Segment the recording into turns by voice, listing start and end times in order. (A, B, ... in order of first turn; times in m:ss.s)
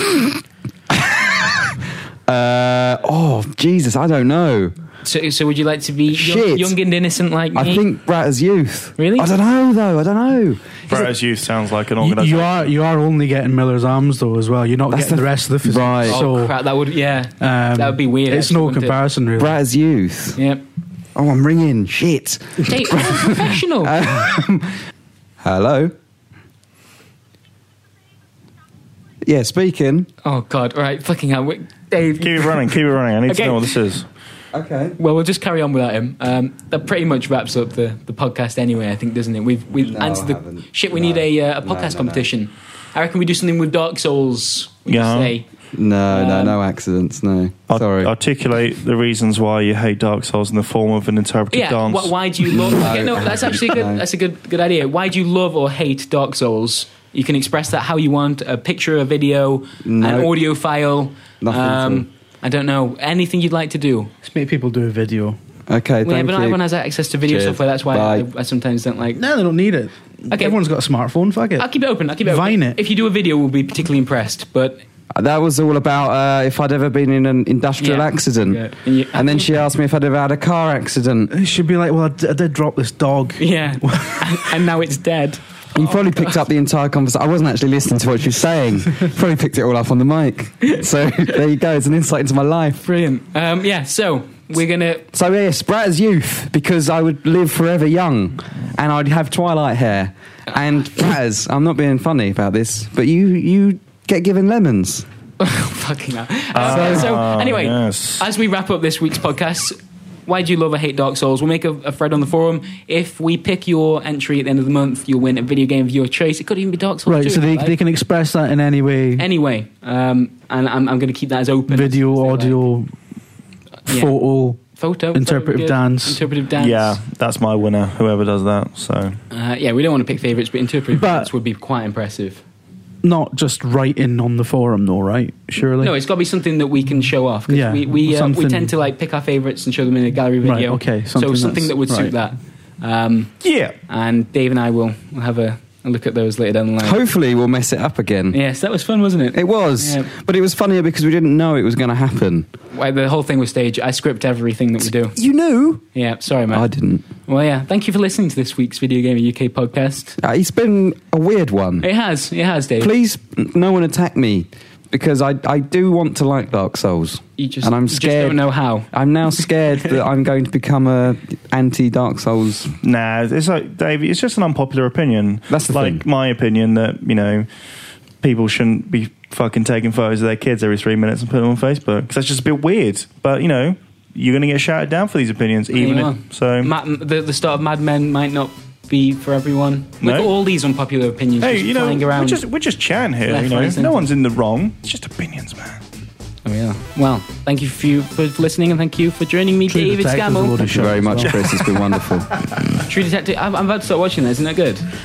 0:00.9-0:04.7 A
0:05.0-0:07.8 B
0:06.1-0:06.7 A
0:07.5-0:10.9 A
0:09.0-0:09.3 B
0:10.9-0:12.7 C
0:12.0-0:16.6 D
0:14.9-0:16.2 A
0:16.0-0:19.0 B
0:17.4-0:19.6 D
0:19.4-0:20.4 A
0:20.4-0:20.6 B
0:21.1-0:24.8 A
0:22.6-0:24.0 B
0:25.4-0:25.9 A
0:29.2-0:30.1 A
0:30.2-0:32.6 B
0:32.2-0:34.0 C
0:33.3-0:33.8 B
0:34.5-0:35.0 A
0:35.0-0:45.5 B
0:39.8-0:42.3 A
0:44.9-0:45.3 C
0:45.7-0:48.1 A
0:46.1-0:46.6 B
0:47.7-0:52.1 C
0:51.5-1:04.1 B
0:52.5-0:54.0 A
0:59.8-1:00.3 A
1:01.4-1:02.0 A
1:04.2-1:05.4 D
1:05.7-1:06.6 A
1:06.0-1:09.2 B
1:07.2-1:08.2 A
1:09.2-1:11.6 D
1:10.3-1:10.6 B
1:11.6-1:14.8 B
1:12.2-1:12.8 D
1:15.1-1:21.3 A
1:17.8-1:19.7 B
1:21.3-1:24.3 D
1:23.4-1:26.0 B
1:25.7-1:32.8 A
1:32.8-1:35.1 B
1:35.1-1:45.1 A
1:45.4-1:57.8 B
1:46.5-1:48.3 C
1:46.6-1:47.2 A
1:57.0-1:59.3 D
1:59.2-2:02.6 B
2:01.7-2:02.9 D
2:03.9-2:04.6 D
2:03.9-2:07.0 B
2:05.1-2:06.2 D
2:06.6-2:09.2 C
2:09.3-2:12.4 B
2:10.9-2:11.3 D
2:13.0-2:15.9 D
2:15.6-2:23.3 B
2:17.5-2:18.7 D
2:20.4-2:22.1 D
2:23.4-2:23.7 C
2:23.9-2:27.0 B
2:26.8-2:28.4 A
2:28.3-2:30.1 B
2:29.3-2:32.5 A
2:32.7-2:35.2 B
2:35.1-2:35.8 A
2:35.9-2:36.7 B
2:36.5-2:37.1 A
2:37.2-2:40.2 B
2:40.2-2:41.9 A
2:41.8-2:42.9 B
2:42.8-2:52.7 A
2:47.4-2:48.9 B
2:52.8-2:57.5 C
2:55.5-2:56.0 A
2:58.2-3:06.7 C
3:05.7-3:12.4 B
3:10.0-3:10.3 C
3:11.4-3:15.8 C
3:13.3-3:14.1 B
3:16.4-3:20.6 B
3:19.7-3:21.7 D
3:20.7-3:22.3 A
3:22.8-3:24.9 B